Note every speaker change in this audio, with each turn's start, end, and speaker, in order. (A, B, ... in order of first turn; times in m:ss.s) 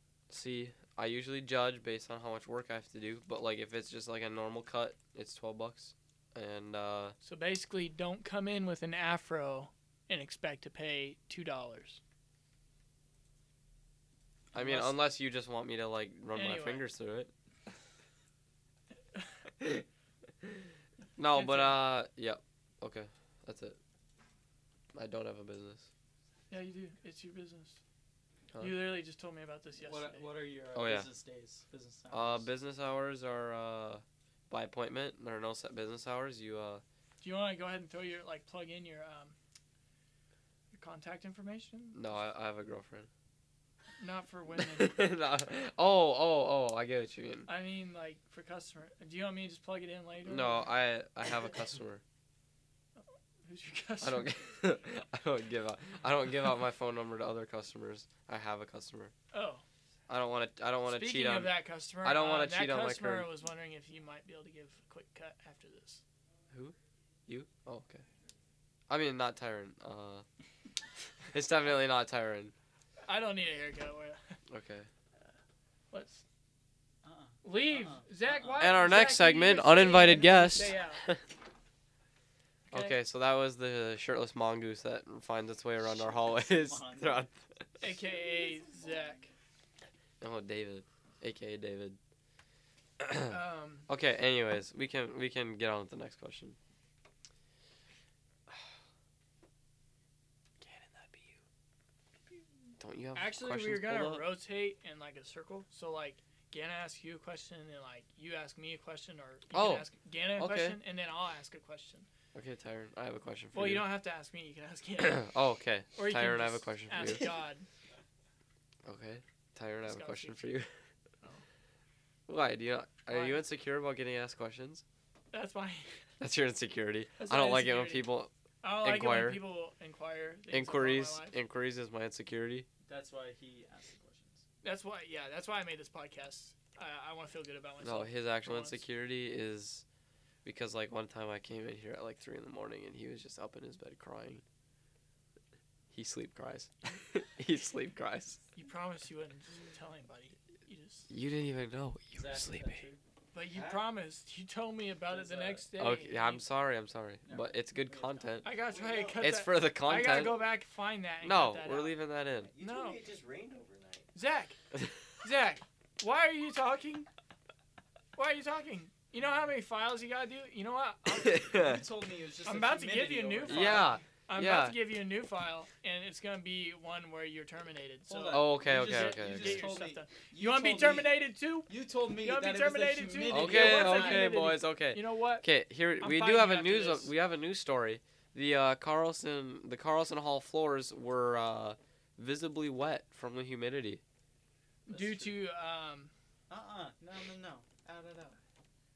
0:00.3-0:07.2 A
0:07.2-0:12.0 B
0:14.5-0:14.9 B
0:14.5-0:17.3 A
0:16.3-0:16.8 B
0:19.6-0:19.8 A
0:20.4-0:23.8 A
0:21.3-0:21.8 B
0:24.9-0:25.9 A
0:26.5-0:27.8 B
0:28.5-0:28.9 A
0:28.6-0:30.3 B
0:29.8-0:32.5 C
0:30.7-0:31.1 A
0:32.1-0:36.8 A
0:37.2-0:39.3 B
0:40.7-0:42.0 B
0:41.9-0:43.1 A
0:44.0-0:45.0 B
0:44.5-0:47.5 A
0:47.5-0:50.7 B
0:50.2-0:52.0 A
0:53.4-0:54.4 B
0:54.0-0:59.1 A
0:59.3-0:59.6 B
1:00.1-1:03.3 A
1:00.8-1:06.0 B
1:07.3-1:08.0 A
1:08.9-1:10.2 A
1:11.3-1:12.5 A
1:13.0-1:14.4 B
1:14.5-1:14.9 A
1:15.9-1:16.2 B
1:17.0-1:18.8 C
1:17.4-1:21.0 B
1:18.6-1:21.2 A
1:22.7-1:23.0 B
1:22.7-1:27.6 A
1:25.8-1:27.3 C
1:27.8-1:29.3 B
1:30.2-1:32.0 A
1:33.0-1:36.6 A
1:33.3-1:33.9 B
1:38.5-1:38.7 A
1:40.6-1:41.4 A
1:42.8-1:44.3 A
1:43.1-1:52.1 B
1:49.5-1:50.8 A
1:52.3-1:53.9 A
1:53.5-1:55.2 B
1:55.0-1:57.3 A
1:55.9-1:57.7 B
1:58.8-2:00.7 A
1:59.8-2:00.6 B
2:02.3-2:04.8 A
2:03.1-2:03.4 B
2:05.3-2:05.9 B
2:06.2-2:09.4 A
2:07.2-2:08.1 B
2:08.6-2:11.4 B
2:10.5-2:12.7 A
2:12.9-2:14.4 C
2:14.6-2:18.8 B
2:17.8-2:19.8 A
2:20.4-2:24.4 A
2:25.9-2:28.4 A
2:28.5-2:31.1 B
2:31.1-2:32.8 A
2:32.1-2:33.0 C
2:33.3-2:36.4 B
2:33.4-2:33.9 D
2:35.1-2:35.6 C
2:35.8-2:38.5 A
2:37.2-2:38.4 C
2:38.4-2:42.0 B
2:38.6-2:39.3 D
2:39.2-2:40.4 A
2:41.2-2:42.5 A
2:42.4-2:44.1 D
2:42.6-2:43.0 B
2:44.1-2:44.6 B
2:45.2-2:47.1 B
2:48.1-2:51.6 B
2:51.1-2:51.8 A
2:51.5-2:53.9 C
2:52.4-3:05.5 B
2:53.5-2:54.8 A
2:58.1-3:04.3 C
2:58.3-2:59.7 A
3:03.3-3:14.0 A
3:06.0-3:07.1 B
3:14.8-3:16.1 B
3:14.9-3:15.4 A
3:16.5-3:18.4 C